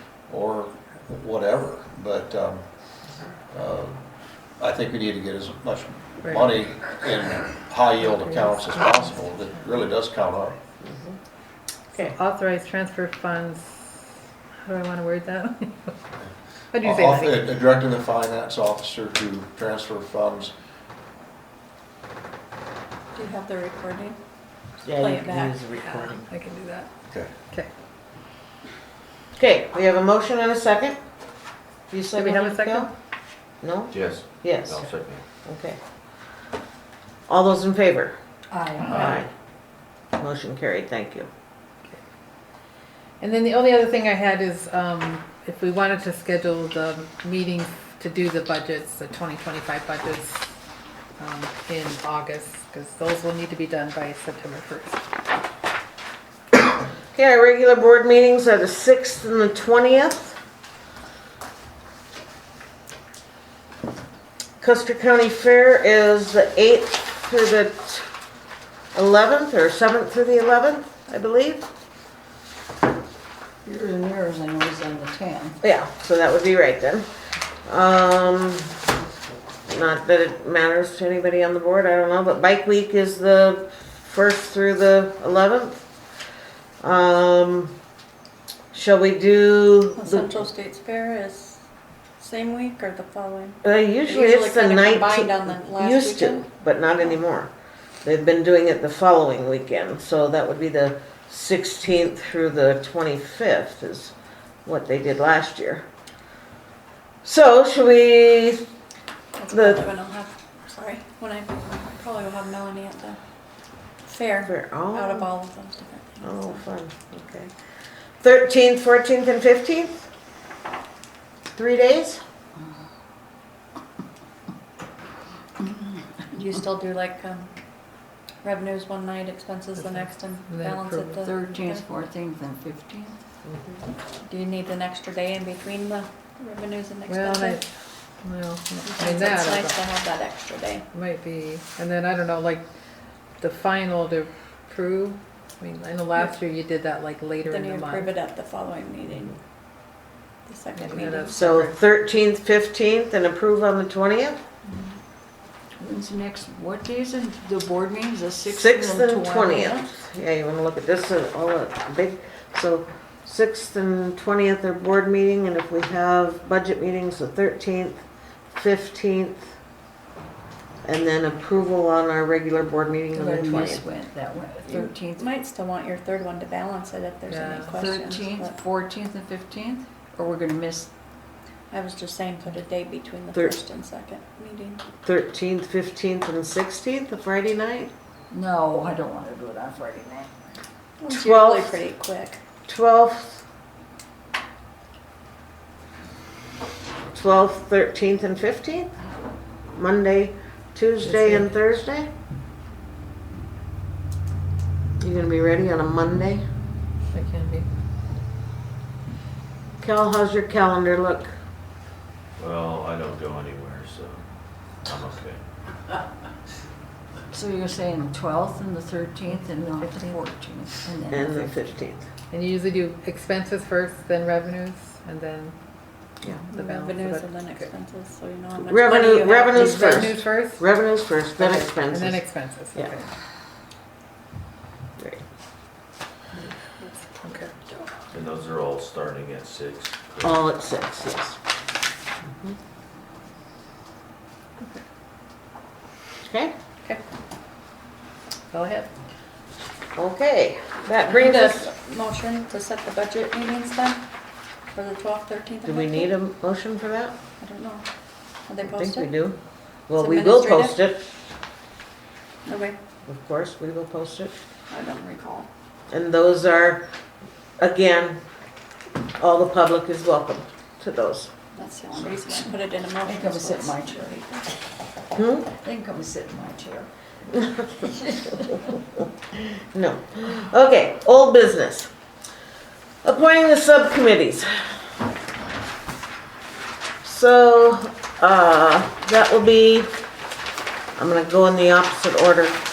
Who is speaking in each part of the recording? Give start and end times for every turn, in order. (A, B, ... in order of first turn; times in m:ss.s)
0:00.3-0:02.6 A
0:03.5-0:04.0 A
0:04.6-0:10.6 A
0:06.2-0:06.6 B
0:08.0-0:09.9 B
0:10.8-0:11.2 C
0:12.0-0:14.1 B
0:14.6-0:16.0 B
0:16.7-0:17.5 B
0:16.8-0:20.5 A
0:23.1-0:24.2 D
0:24.8-0:25.5 D
0:24.8-0:26.3 C
0:25.8-0:26.9 B
0:29.4-0:31.0 C
0:31.9-0:32.9 C
0:32.1-0:32.9 B
0:33.6-0:34.9 C
0:33.9-0:35.2 E
0:35.4-0:35.8 C
0:37.3-0:38.1 C
0:38.5-0:39.1 F
0:38.9-0:39.3 C
0:40.2-0:41.3 C
0:43.2-0:50.5 B
0:51.2-0:55.0 B
0:57.1-1:00.4 C
1:04.6-1:08.1 C
1:08.9-1:11.7 C
1:13.6-1:15.6 F
1:15.6-1:17.0 C
1:17.6-1:18.8 C
1:19.6-1:25.8 C
1:26.8-1:27.7 C
1:28.7-1:30.3 C
1:30.0-1:31.6 D
1:32.2-1:36.5 D
1:33.6-1:37.5 C
1:38.0-1:44.1 C
1:44.6-1:45.8 C
1:47.2-1:48.6 C
1:49.4-1:53.2 D
1:49.5-1:49.8 C
1:54.0-1:56.6 D
1:54.5-1:55.3 C
1:56.2-1:57.5 C
1:58.2-2:00.1 C
2:01.5-2:02.2 C
2:05.6-2:06.2 F
2:06.3-2:07.5 D
2:08.4-2:11.9 D
2:09.8-2:11.2 B
2:11.2-2:13.2 F
2:13.4-2:13.9 C
2:14.2-2:17.6 D
2:17.1-2:17.6 B
2:18.2-2:19.8 B
2:18.9-2:20.8 D
2:20.9-2:22.6 B
2:23.4-2:28.1 B
2:27.4-2:29.4 D
2:30.4-2:31.5 D
2:30.7-2:31.7 B
2:31.3-2:34.4 C
2:34.6-2:35.0 D
2:35.7-2:39.8 F
2:38.5-2:48.0 C
2:48.5-2:49.5 C
2:50.8-2:53.8 C
2:53.1-2:55.3 F
2:54.6-2:58.6 D
2:57.3-2:57.7 B
2:57.7-3:00.9 F
3:01.7-3:04.8 D
3:03.3-3:03.6 C
3:05.0-3:07.9 C
3:08.3-3:10.4 F
3:11.0-3:12.4 D
3:11.1-3:11.8 C
3:12.7-3:13.4 C
3:17.1-3:18.9 C
3:19.7-3:22.1 C
3:21.0-3:21.5 B
3:25.0-3:26.4 C
3:27.1-3:27.7 B
3:29.8-3:31.3 C
3:32.4-3:34.2 E
3:34.8-3:35.4 E
3:37.3-3:41.5 F
3:39.3-3:40.2 B
3:41.1-3:42.0 C
3:42.3-3:45.5 B
3:46.5-3:50.0 D
3:46.5-3:47.7 B
3:48.6-3:52.2 C
3:49.4-3:50.6 B
3:51.4-3:53.0 B
3:57.2-3:57.6 B
3:58.1-4:00.4 E
4:00.2-4:01.4 C
4:06.2-4:06.5 C
4:08.5-4:08.9 B
4:10.0-4:11.7 C
4:11.1-4:14.0 D
4:14.7-4:16.1 D
4:15.6-4:17.2 C
4:17.4-4:17.8 D
4:18.4-4:19.1 D
4:18.6-4:19.4 C
4:19.9-4:21.0 C
4:20.0-4:20.8 D
4:22.4-4:22.8 D
4:23.0-4:24.3 C
4:24.7-4:25.5 D
4:25.9-4:26.8 C
4:27.6-4:28.2 C
4:29.2-4:31.3 C
4:31.6-4:34.2 D
4:31.6-4:32.5 F
4:33.0-4:34.5 F
4:35.1-4:35.5 C
4:35.5-4:36.9 F
4:37.8-4:38.6 F
4:39.7-4:41.9 C
4:43.0-4:44.5 C
4:47.0-4:49.9 C
4:51.0-4:52.6 C